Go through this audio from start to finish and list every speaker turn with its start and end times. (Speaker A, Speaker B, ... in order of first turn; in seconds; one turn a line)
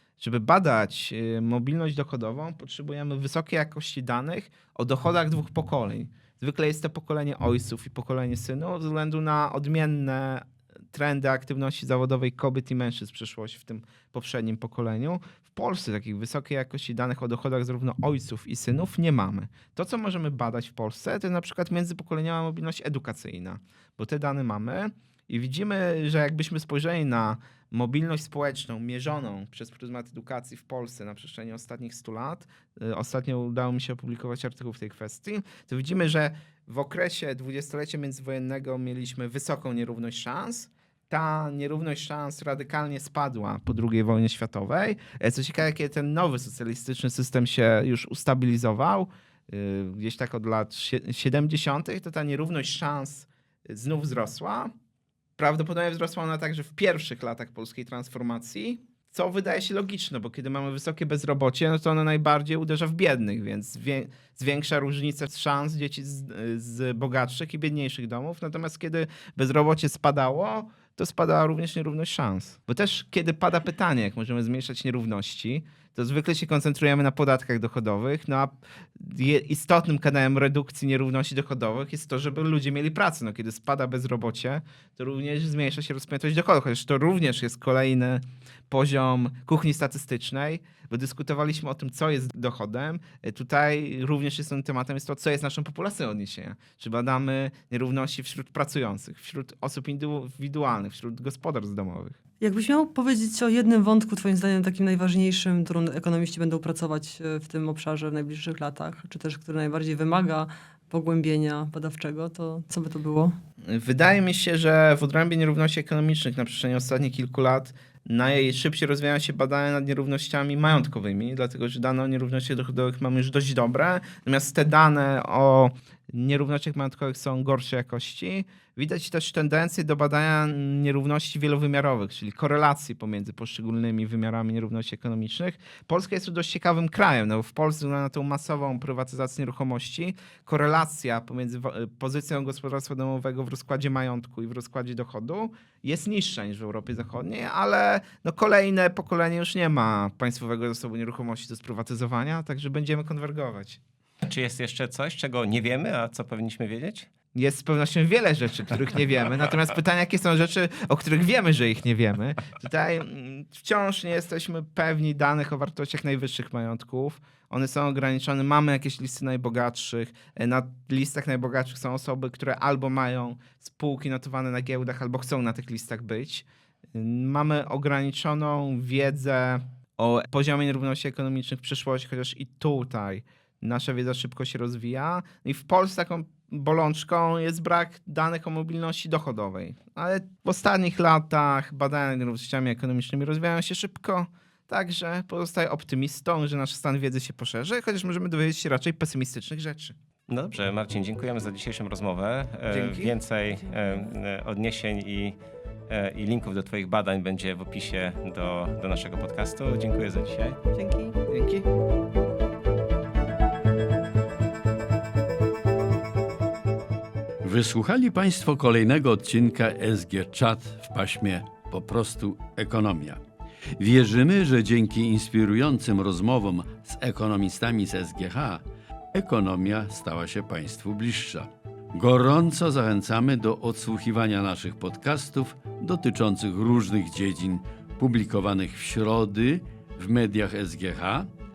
Speaker A: 0.2-54.7
Speaker A: 55.4-102.2
Speaker B: 102.4-113.4
Speaker A: 113.6-153.8
Speaker C: 154.2-157.1
Speaker A: 157.3-199.9
Speaker C: 200.3-205.3
Speaker A: 202.7-203.2
Speaker C: 205.9-210.7
Speaker B: 210.8-211.1
Speaker A: 211.3-211.7
Speaker D: 217.4-223.2
Speaker D: 223.8-228.6
Speaker D: 229.1-241.3